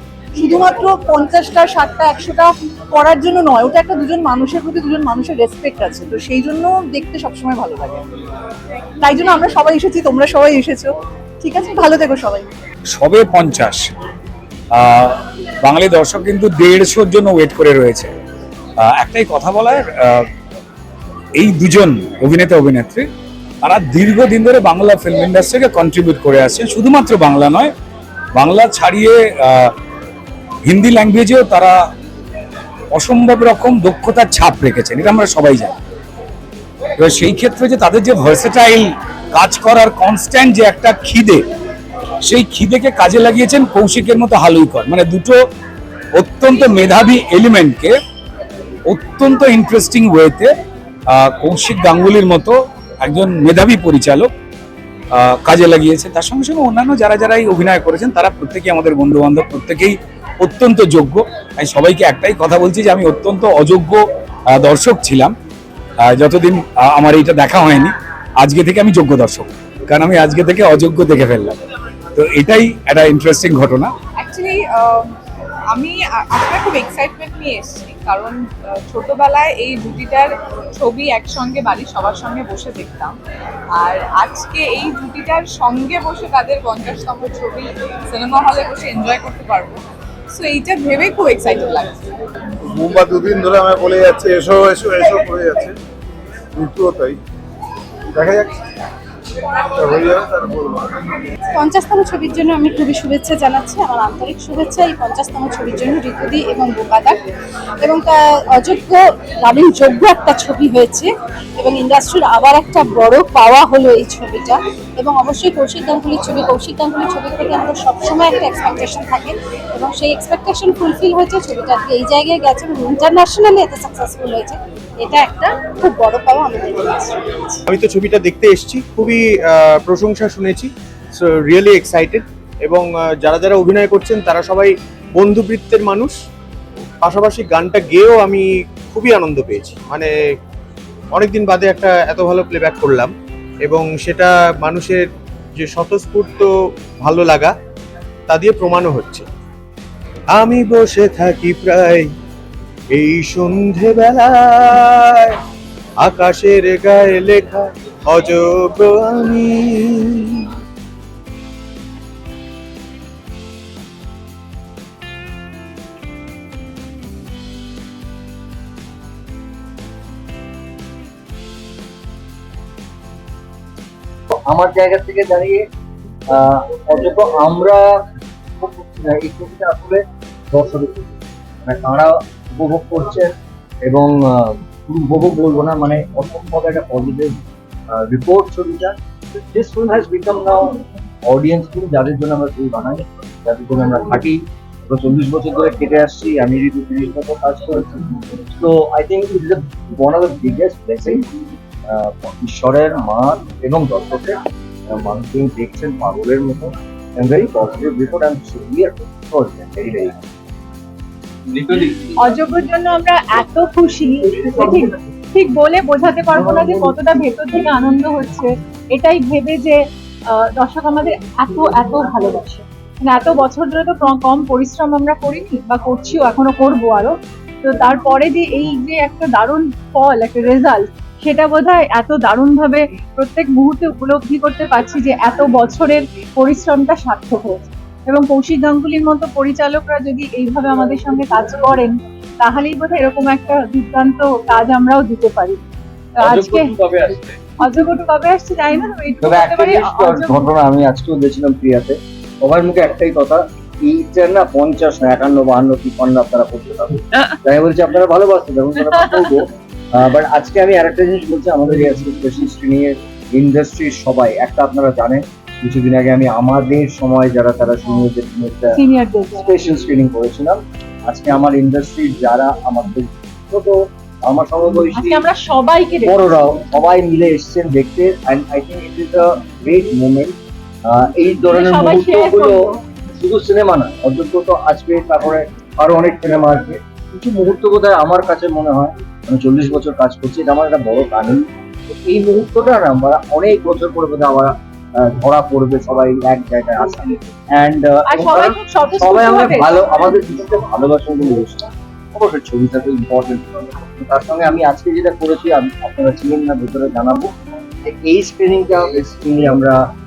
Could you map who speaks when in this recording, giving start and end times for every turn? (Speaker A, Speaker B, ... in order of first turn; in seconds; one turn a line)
Speaker A: 0.4-8.0
Speaker B: 0.4-2.5
Speaker B: 3.0-4.3
Speaker B: 4.8-5.8
Speaker A: 9.0-10.9
Speaker B: 9.1-9.4
Speaker B: 10.1-10.7
Speaker B: 11.4-12.5
Speaker A: 11.5-12.4
Speaker C: 12.9-13.8
Speaker C: 14.8-18.1
Speaker C: 18.8-20.2
Speaker C: 21.4-23.1
Speaker C: 23.6-27.7
Speaker C: 28.4-29.7
Speaker C: 30.6-31.8
Speaker C: 32.9-35.7
Speaker C: 37.0-41.4
Speaker C: 42.2-45.4
Speaker C: 46.1-47.9
Speaker C: 48.9-50.5
Speaker C: 51.1-54.3
Speaker C: 55.1-64.0
Speaker C: 64.6-65.3
Speaker C: 66.0-71.6
Speaker C: 72.2-73.9
Speaker D: 74.2-75.1
Speaker D: 75.7-83.2
Speaker D: 83.8-89.8
Speaker D: 90.3-92.0
Speaker E: 92.6-95.8
Speaker E: 96.5-97.2
Speaker E: 98.1-98.5
Speaker E: 99.8-100.9
Speaker B: 101.6-107.2
Speaker B: 107.8-111.1
Speaker B: 111.6-127.2
Speaker F: 127.7-130.7
Speaker F: 131.5-136.1
Speaker F: 137.1-140.1
Speaker F: 141.2-143.1
Speaker F: 143.7-145.1
Speaker F: 145.6-146.5
Speaker F: 147.0-147.5
Speaker F: 148.3-149.3
Speaker F: 150.4-152.1
Speaker F: 153.0-154.3
Speaker F: 156.1-159.9
Speaker G: 174.4-175.6
Speaker G: 176.3-178.0
Speaker G: 178.6-181.1
Speaker G: 181.7-187.4
Speaker G: 187.9-201.3
Speaker G: 201.9-210.3
Speaker H: 211.7-219.8
Speaker H: 220.3-245.6
Speaker H: 246.2-246.9
Speaker G: 246.2-247.4
Speaker H: 247.6-250.5
Speaker G: 249.2-268.8
Speaker H: 268.8-269.6
Speaker G: 269.3-275.3
Speaker H: 274.9-276.5
Speaker G: 276.0-282.6
Speaker H: 281.4-282.8
Speaker G: 283.2-291.5
Speaker G: 292.0-307.3
Speaker H: 298.1-299.9
Speaker G: 307.9-309.8